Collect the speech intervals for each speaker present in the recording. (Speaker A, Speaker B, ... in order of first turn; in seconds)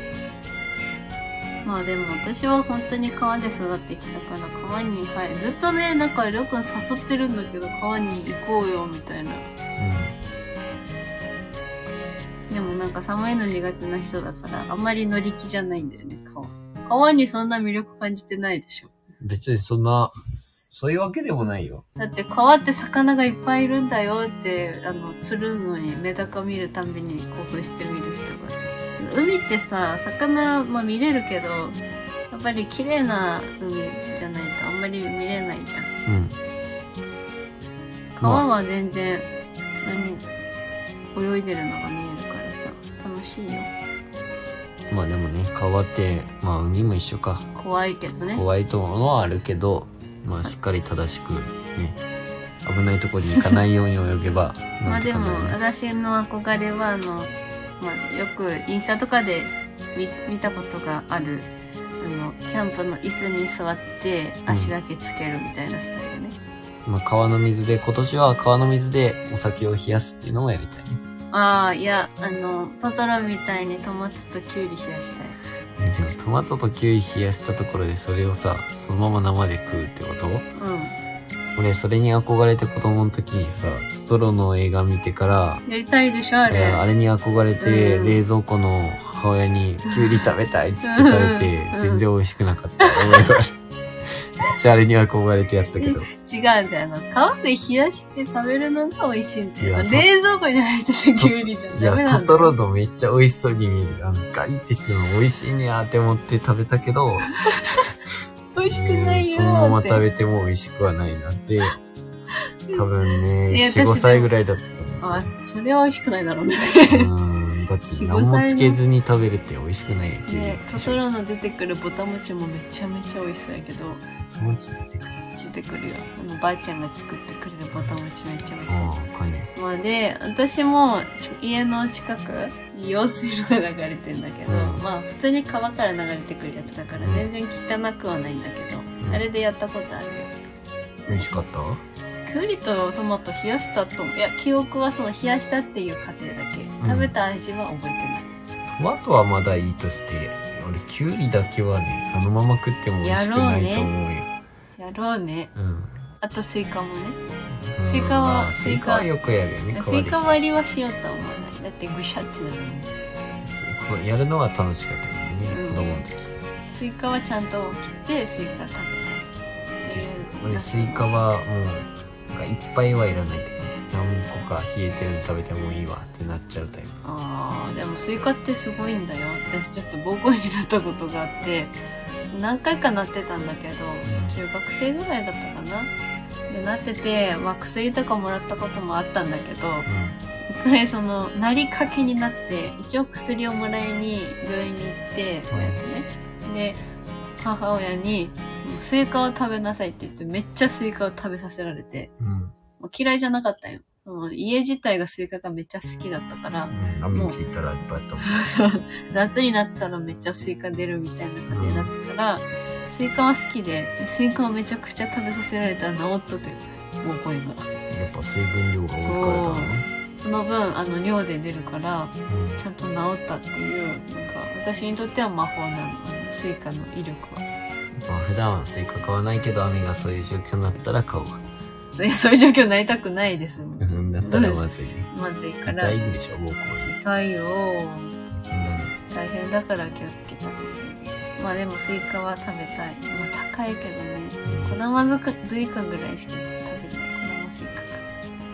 Speaker A: 1.6-9.5, 12.5-18.9, 22.0-35.9, 38.2-40.3, 41.1-43.7, 47.5-48.4, 54.9-66.4, 71.3-75.4, 80.6-81.0, 85.7-86.9, 87.6-88.2, 90.8-92.0, 92.8-93.2, 95.8-102.5, 107.5-107.9, 108.5-110.0, 112.7-114.3, 115.0-117.1, 117.9-118.8, 120.3-124.0, 125.4-128.9, 129.6-140.3, 141.1-141.4, 142.3-148.3, 153.0-153.9, 154.8-155.5, 156.2-157.2, 157.9-159.1, 159.7-162.9, 165.5-166.0, 166.7-169.3, 169.8-171.2, 177.0-181.8, 182.3-185.9, 186.5-189.9, 190.5-196.8, 197.4-202.1, 202.8-207.4, 208.2-217.7, 219.0-227.4, 232.0-236.0, 236.8-238.2, 239.1-248.0
Speaker B: 9.8-10.2, 19.2-20.1, 20.7-21.8, 36.1-36.4, 44.9-47.5, 48.3-52.0, 52.6-55.6, 64.5-64.7, 66.9-71.0, 75.8-80.5, 81.6-85.6, 86.5-93.5, 94.1-96.1, 99.6-100.1, 101.2-107.3, 108.7-111.8, 112.7-115.3, 116.9-121.1, 124.3-125.3, 128.7-129.5, 134.5-134.8, 137.0-137.3, 139.0-139.3, 141.1-141.8, 146.8-147.1, 148.7-154.3, 155.6-156.0, 157.6-160.4, 163.4-166.3, 169.9-177.0, 184.0-184.4, 189.9-190.2, 195.5-195.8, 202.2-202.5, 206.7-208.3, 211.5-211.9, 217.9-219.9, 222.3-222.6, 228.0-231.4, 233.8-235.1, 235.7-236.9, 238.3-238.9, 244.4-244.8